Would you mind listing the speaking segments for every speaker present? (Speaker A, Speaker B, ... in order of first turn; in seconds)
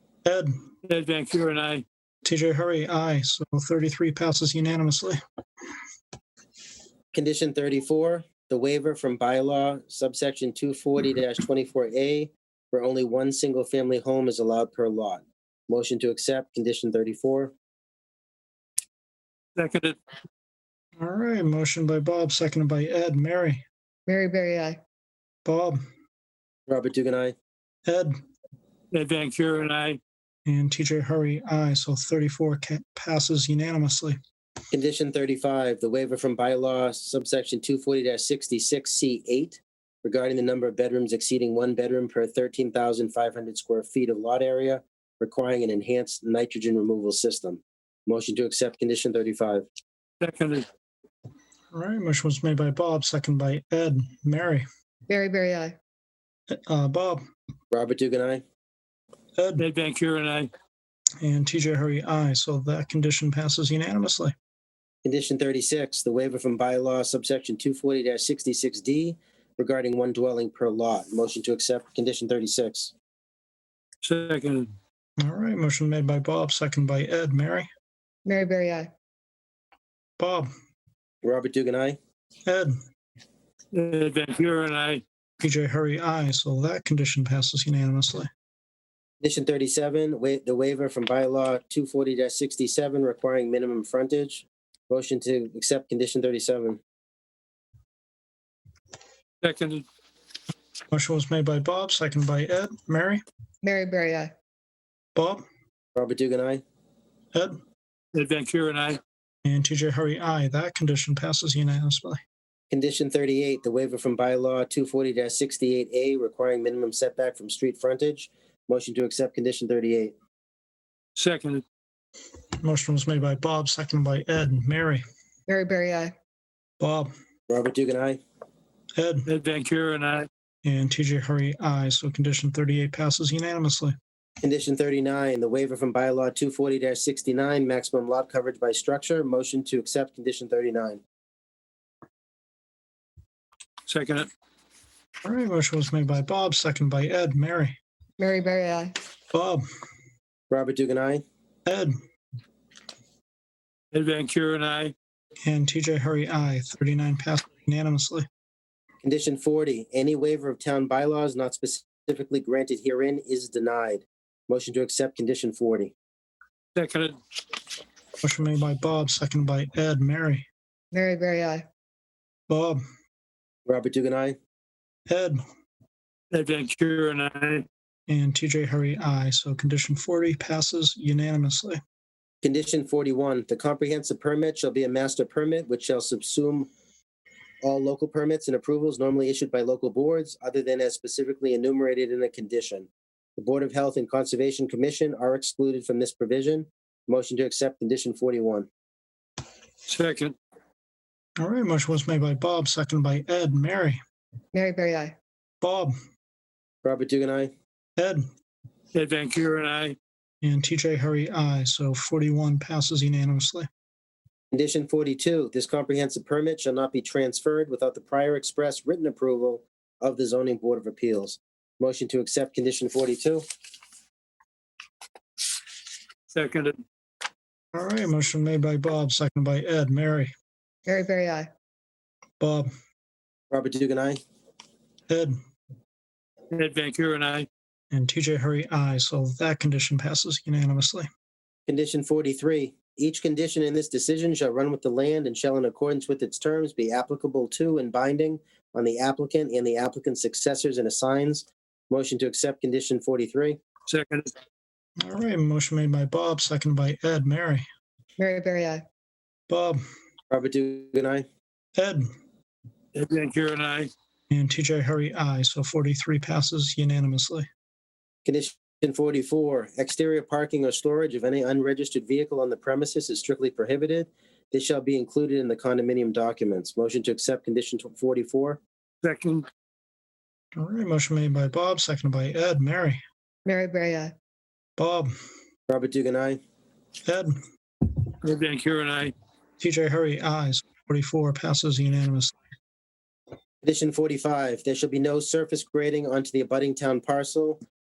Speaker A: 0.2-0.5, 2.2-5.2, 21.0-23.6, 25.4-25.8, 27.9-28.1, 30.4-34.2, 51.7-54.6, 56.5-57.2, 59.4-59.6, 61.2-64.3, 75.2-77.7, 80.2-80.5, 82.5-82.7, 85.4-88.3, 100.9-103.2, 105.1-105.4, 107.3-107.6, 109.4-112.2, 122.6-125.0, 126.8-127.1, 128.9-129.3, 130.6-133.9, 145.2-147.8, 149.3-149.6, 151.7-151.9, 155.4-158.2, 168.2-170.4, 172.5-172.8, 175.1-175.4, 178.1-181.8, 201.4-204.0, 205.6-205.9, 208.0-208.2, 210.4-213.7, 227.7-230.3, 232.4-232.7, 235.1-235.4, 237.9-241.1, 255.0-257.6, 259.5-259.8, 261.8-262.1, 264.3-267.4, 280.6-283.0, 284.8-285.1, 287.0-287.3, 289.6-292.3
Speaker B: 0.8-1.8, 19.6-19.9, 28.9-30.0, 50.2-50.6, 59.6-60.5, 74.0-74.7, 83.7-85.0, 99.4-99.8, 108.1-109.0, 121.2-121.6, 129.3-130.3, 143.9-144.3, 153.9-154.9, 166.8-167.1, 176.3-177.7, 199.9-200.3, 208.9-209.9, 226.3-226.8, 236.5-237.5, 253.9-254.3, 262.9-263.9, 279.0-279.4, 288.2-289.1
Speaker C: 7.1-17.5, 26.7-27.3, 34.7-49.7, 57.7-58.4, 65.0-72.9, 81.2-82.0, 89.2-96.8, 105.9-106.6, 112.7-120.1, 127.5-128.2, 134.4-141.0, 150.5-151.2, 159.0-165.9, 173.7-174.4, 182.4-186.7, 187.6-198.7, 206.8-207.5, 214.5-223.4, 233.5-234.2, 241.7-253.6, 260.3-261.2, 268.2-278.6, 285.7-286.4, 293.6-297.6
Speaker D: 24.1-24.8, 55.1-55.7, 78.2-78.9, 103.6-104.3, 125.5-126.1, 148.2-148.9, 170.9-171.6, 204.5-205.1, 230.9-231.5, 258.2-258.8, 283.4-284.1